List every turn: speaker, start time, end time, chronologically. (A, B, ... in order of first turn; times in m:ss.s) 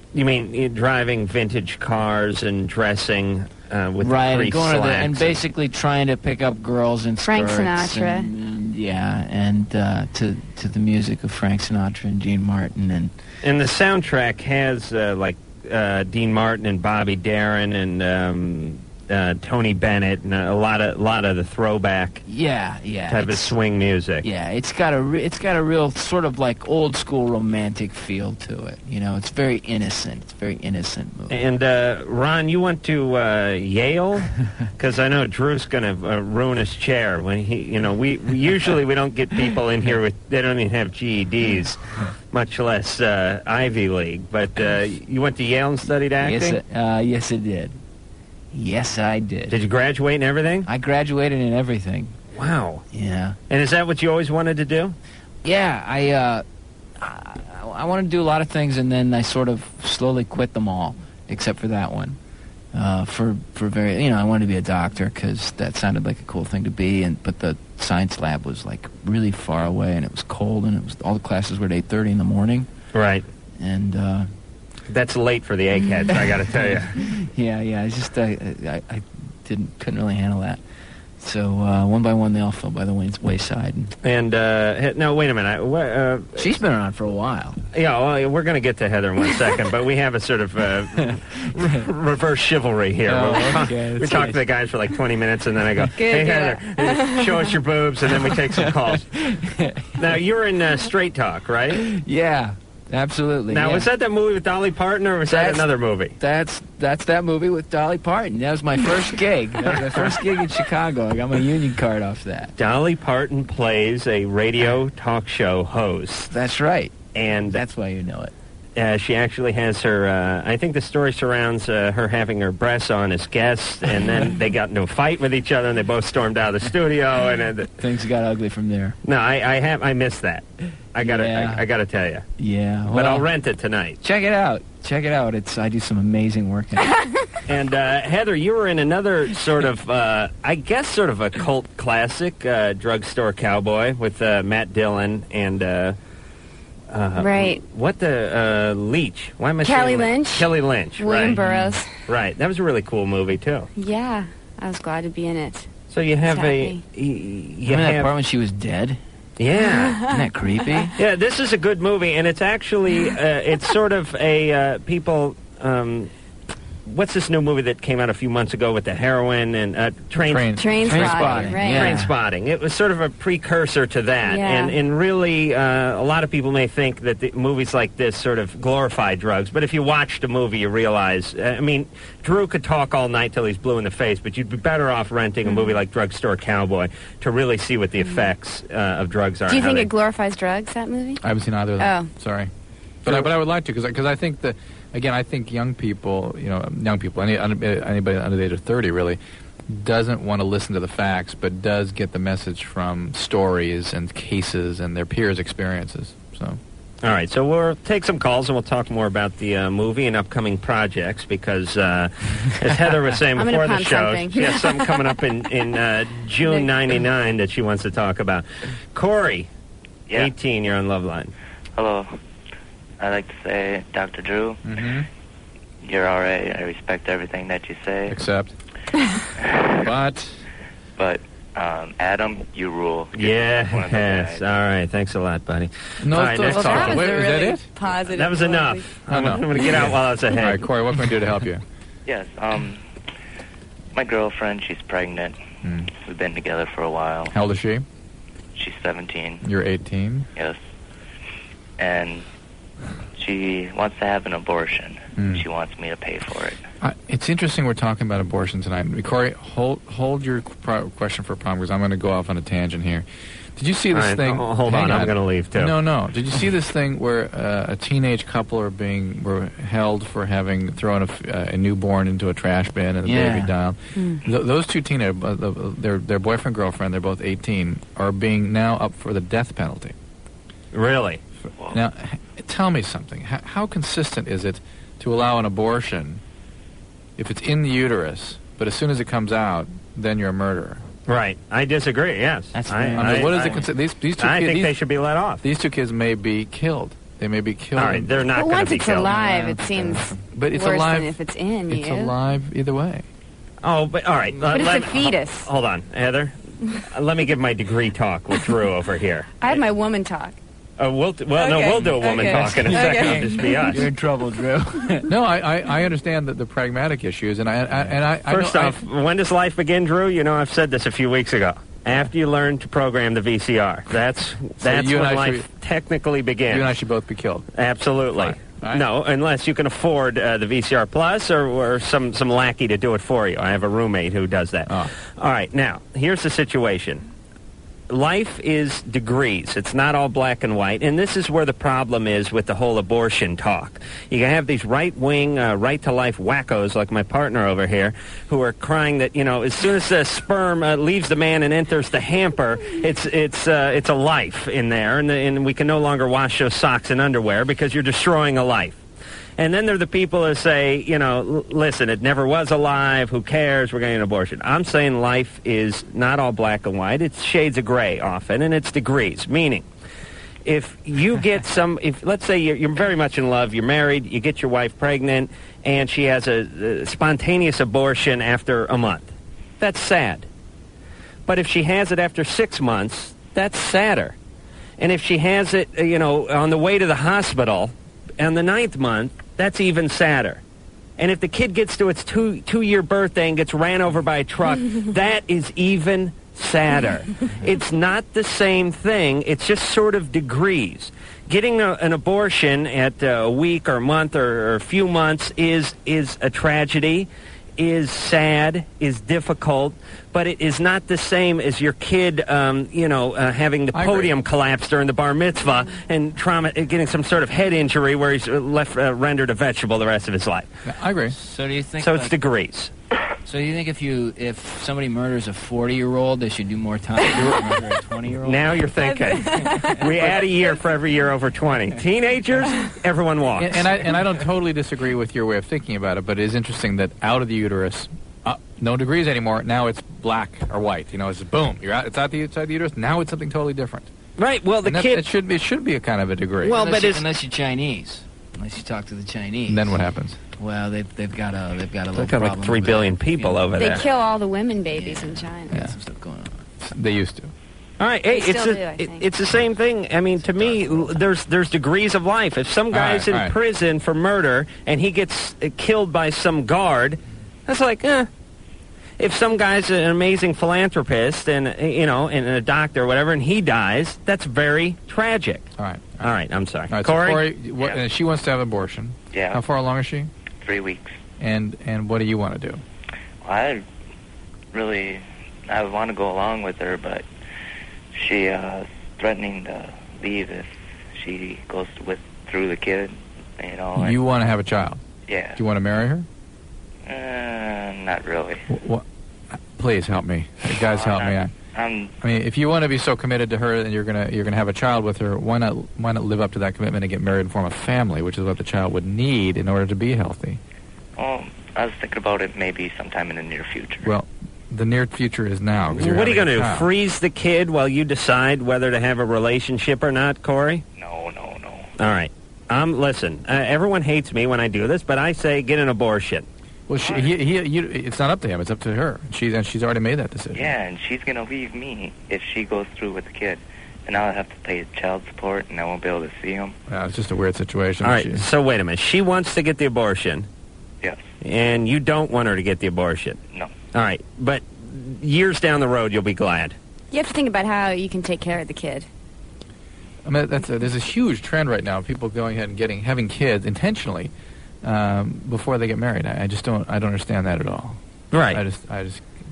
0:00.1-0:05.4 A
0:04.0-0:13.1 B
0:07.2-0:08.3 C
0:13.4-0:22.2 A
0:22.2-0:23.5 B
0:23.1-0:24.3 A
0:24.2-0:31.4 B
0:31.3-0:41.8 A
0:42.3-0:46.6 A
0:46.2-0:47.8 B
0:48.5-0:49.6 B
0:49.5-0:50.7 A
0:50.6-0:52.2 B
0:52.3-0:52.8 A
0:52.9-0:53.4 B
0:53.5-0:55.0 A
0:55.4-0:56.4 B
0:57.0-1:02.2 B
1:02.7-1:12.7 B
1:12.9-1:13.2 A
1:13.6-1:14.3 B
1:14.9-1:17.0 A
1:16.5-1:20.6 B
1:21.2-1:23.9 B
1:24.0-1:26.6 A
1:26.4-1:27.6 B
1:27.7-1:39.0 A
1:31.0-1:31.8 B
1:33.0-1:34.4 B
1:35.9-1:37.2 C
1:38.2-1:40.1 B
1:40.0-1:41.8 A
1:41.8-1:43.9 B
1:43.5-1:46.1 A
1:45.2-1:52.5 B
1:49.7-1:50.1 A
1:52.6-1:56.3 A
1:56.3-1:58.3 B
1:57.1-1:57.6 A
1:58.8-2:07.7 A
2:07.8-2:09.0 B
2:09.0-2:12.2 A
2:11.0-2:11.6 B
2:12.4-2:13.3 B
2:12.9-2:14.0 A
2:14.0-2:16.9 B
2:17.5-2:26.0 A
2:26.9-2:31.4 A
2:27.2-2:27.6 C
2:29.6-2:32.0 C
2:31.3-2:31.8 B
2:32.1-2:33.7 A
2:33.8-2:35.7 C
2:35.9-2:38.1 A
2:36.2-2:36.8 C
2:37.6-2:39.0 B
2:39.4-2:40.0 A
2:39.7-2:40.2 C
2:40.0-2:40.9 B
2:41.0-2:46.1 A
2:46.8-2:50.5 A
2:50.2-2:51.6 D
2:50.5-2:51.9 C
2:50.8-2:52.1 B
2:51.7-3:09.9 A
2:54.2-2:54.8 C
3:05.5-3:05.7 C
3:09.5-3:11.2 C
3:11.2-3:12.5 D
3:11.8-3:12.1 C
3:13.0-3:26.6 D
3:27.0-3:39.5 A
3:33.4-3:35.1 C
3:36.4-3:36.7 C
3:40.2-3:41.3 A
3:41.8-3:42.1 E
3:43.0-3:44.6 E
3:44.6-3:45.0 D
3:45.8-3:48.2 E
3:48.1-3:48.5 D
3:49.8-3:50.4 D
3:51.0-3:54.4 E
3:53.2-3:57.1 A
3:56.0-3:57.7 D
3:56.4-3:59.0 C
3:58.1-4:00.6 A
3:59.1-4:01.6 D
4:02.0-4:02.8 E
4:03.9-4:05.4 E
4:05.9-4:07.3 E
4:07.3-4:07.8 D
4:08.6-4:09.4 E
4:09.4-4:10.3 D
4:11.8-4:12.2 E
4:13.2-4:16.6 E
4:15.2-4:15.4 D
4:16.8-4:39.9 D
4:23.9-4:25.8 A
4:33.0-4:33.5 B
4:34.0-4:34.2 C
4:40.7-4:41.2 A
4:41.7-4:46.2 D
4:47.2-4:50.8 D
4:51.0-4:55.4 A
4:52.5-4:53.7 B
4:52.9-4:54.8 D
4:55.4-4:58.1 D
4:57.7-4:59.1 A
4:58.3-5:02.1 C
4:59.0-5:00.2 B
5:00.3-5:03.0 D
5:03.6-5:09.6 A
5:04.4-5:05.5 C
5:09.4-5:10.4 C
5:10.8-5:13.9 A
5:11.3-5:13.7 C
5:12.3-5:15.1 B
5:15.1-5:18.8 D
5:17.9-5:26.7 A
5:24.6-5:25.5 D
5:26.5-5:27.4 D
5:27.5-5:37.0 A
5:28.1-5:28.8 D
5:37.9-5:58.8 A
5:59.4-6:09.6 A
6:10.4-6:20.3 A
6:21.2-6:24.2 A
6:24.8-6:30.4 A
6:31.0-7:00.5 A
6:53.7-6:54.1 D
7:00.7-7:01.2 D
7:01.1-7:02.1 B
7:01.8-7:02.7 A
7:03.2-7:08.6 B
7:08.2-7:13.7 A
7:08.8-7:09.8 C
7:09.5-7:10.2 B
7:13.4-7:23.9 D
7:24.2-7:25.1 A
7:24.6-7:26.6 D
7:26.4-7:27.0 A
7:26.5-7:29.8 B
7:29.5-7:30.2 D
7:30.3-7:33.8 B
7:32.0-7:33.8 A
7:33.6-7:35.6 C
7:34.7-7:36.4 B
7:36.6-7:37.3 D
7:37.8-7:48.1 A
7:38.1-7:39.0 C
7:40.2-7:41.0 B
7:42.7-7:43.3 D
7:49.0-7:55.5 A
7:55.6-7:56.1 D
7:56.0-7:57.4 A
7:56.7-8:00.1 D
7:59.1-7:59.4 E
8:00.4-8:00.9 E
8:01.2-8:02.6 D
8:03.2-8:03.6 E
8:04.5-8:07.0 E
8:07.9-8:14.0 E
8:13.8-8:14.8 D
8:15.1-8:15.4 E
8:15.4-8:16.0 D
8:16.8-8:18.4 E
8:18.5-8:18.8 D
8:19.5-8:21.3 D
8:20.6-8:21.9 E
8:22.0-8:30.4 D
8:31.0-8:33.9 E
8:33.8-8:36.7 D
8:35.7-8:40.6 A
8:40.8-8:41.7 E
8:41.8-8:46.2 A
8:46.7-8:50.5 D
8:46.8-8:47.1 E
8:50.3-8:56.5 E
8:56.7-8:58.2 D
8:57.8-9:00.3 A
9:01.2-9:03.2 A
9:03.7-9:06.6 A
9:06.9-9:08.9 C
9:10.0-9:14.1 D
9:14.6-9:17.8 D
9:18.1-9:18.4 A
9:18.3-9:19.1 D